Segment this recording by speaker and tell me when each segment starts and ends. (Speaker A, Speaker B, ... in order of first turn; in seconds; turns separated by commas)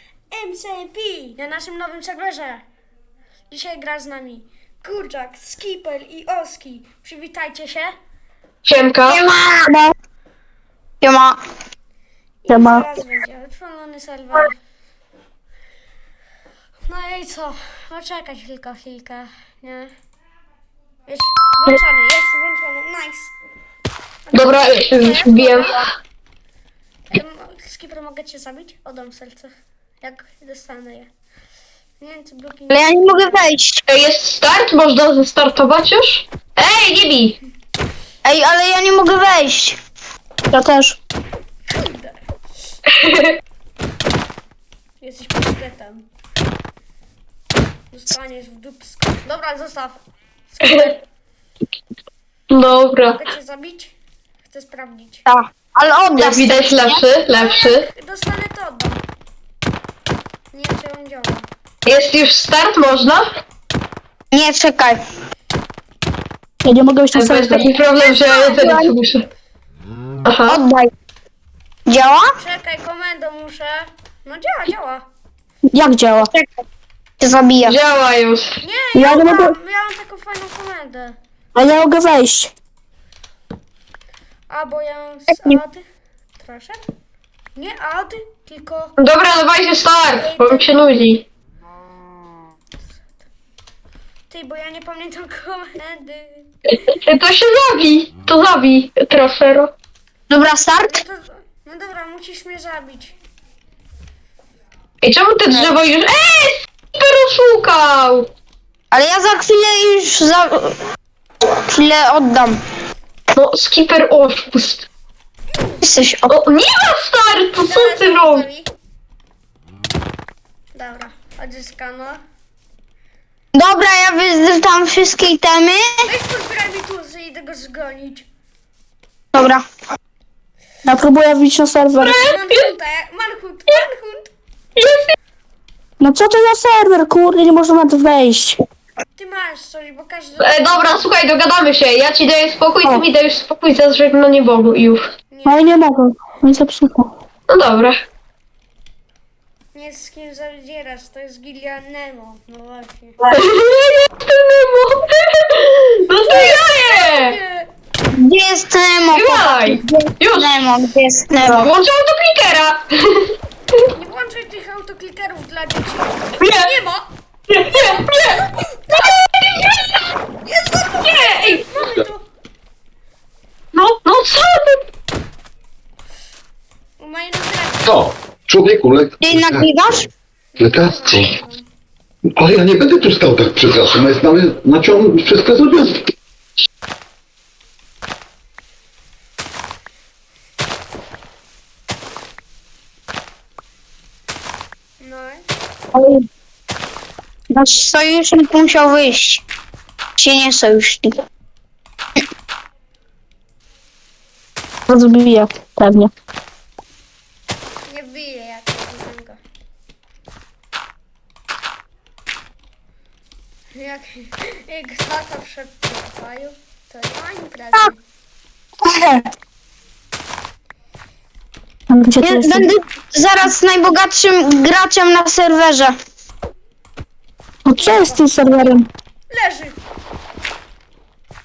Speaker A: 0.3-2.6, Speaker A: 3.5-7.9, Speaker B: 8.6-9.2, Speaker C: 9.1-9.9, Speaker C: 11.0-11.4, Speaker A: 12.4-14.5, Speaker D: 12.5-12.8, Speaker A: 16.9-19.9, Speaker A: 21.1-23.3, Speaker A: 24.3-25.8, Speaker B: 24.3-25.8, Speaker A: 27.1-31.1, Speaker A: 32.0-33.5, Speaker C: 32.7-33.8, Speaker B: 33.9-37.4, Speaker C: 38.2-39.8, Speaker D: 40.5-41.0, Speaker A: 41.7-42.2, Speaker B: 42.9-43.4, Speaker A: 45.0-46.1, Speaker A: 47.9-51.0, Speaker B: 50.6-50.9, Speaker B: 52.5-53.2, Speaker A: 53.1-53.9, Speaker A: 54.5-55.2, Speaker C: 55.3-57.0, Speaker B: 56.2-57.9, Speaker A: 57.3-59.0, Speaker A: 60.5-61.5, Speaker B: 61.8-63.2, Speaker C: 64.3-65.0, Speaker D: 66.6-67.7, Speaker B: 67.1-69.2, Speaker A: 67.8-68.7, Speaker C: 68.5-68.9, Speaker B: 70.2-70.6, Speaker C: 70.5-70.9, Speaker C: 71.9-72.3, Speaker A: 72.4-75.1, Speaker D: 75.7-76.3, Speaker C: 76.2-76.5, Speaker C: 77.2-77.8, Speaker B: 77.6-78.5, Speaker A: 78.6-81.2, Speaker D: 78.9-79.5, Speaker D: 81.5-82.5, Speaker A: 84.5-85.8, Speaker A: 86.4-86.8, Speaker A: 87.5-88.9, Speaker B: 89.0-91.2, Speaker A: 90.2-90.7, Speaker A: 94.3-96.5, Speaker B: 96.9-99.7, Speaker C: 100.3-101.0, Speaker A: 100.8-103.1, Speaker B: 105.0-108.3, Speaker C: 105.5-105.8, Speaker C: 108.9-110.8, Speaker C: 111.5-112.6, Speaker B: 113.3-114.9, Speaker C: 115.8-116.3, Speaker B: 116.3-118.5, Speaker A: 117.6-118.7, Speaker A: 120.7-122.2, Speaker C: 123.5-125.9, Speaker A: 126.0-128.3, Speaker C: 129.3-129.6, Speaker D: 130.8-132.2, Speaker A: 132.0-134.3, Speaker B: 132.0-132.6, Speaker B: 134.8-135.1, Speaker D: 136.0-138.6, Speaker A: 139.1-141.1, Speaker B: 140.4-145.0, Speaker A: 145.3-145.8, Speaker D: 145.4-147.1, Speaker B: 147.5-148.0, Speaker A: 149.7-153.2, Speaker B: 153.2-157.4, Speaker A: 156.1-157.7, Speaker C: 158.1-161.7, Speaker B: 159.1-160.7, Speaker B: 161.4-163.3, Speaker A: 163.9-167.1, Speaker B: 166.4-166.7, Speaker B: 167.5-169.9, Speaker A: 167.7-169.1, Speaker A: 170.4-172.2, Speaker B: 171.0-171.7, Speaker B: 173.7-174.8, Speaker A: 177.0-178.0, Speaker E: 177.8-179.8, Speaker C: 179.2-180.1, Speaker A: 180.5-181.7, Speaker E: 180.6-181.3, Speaker E: 182.3-186.1, Speaker A: 195.0-195.4, Speaker C: 195.9-196.2, Speaker C: 197.5-199.4, Speaker C: 200.2-201.1, Speaker D: 204.9-206.1, Speaker A: 207.9-209.4, Speaker A: 213.7-218.0, Speaker D: 218.8-219.2, Speaker D: 221.9-222.7, Speaker C: 222.2-225.9, Speaker D: 227.6-228.9, Speaker A: 227.7-228.4, Speaker A: 229.3-229.8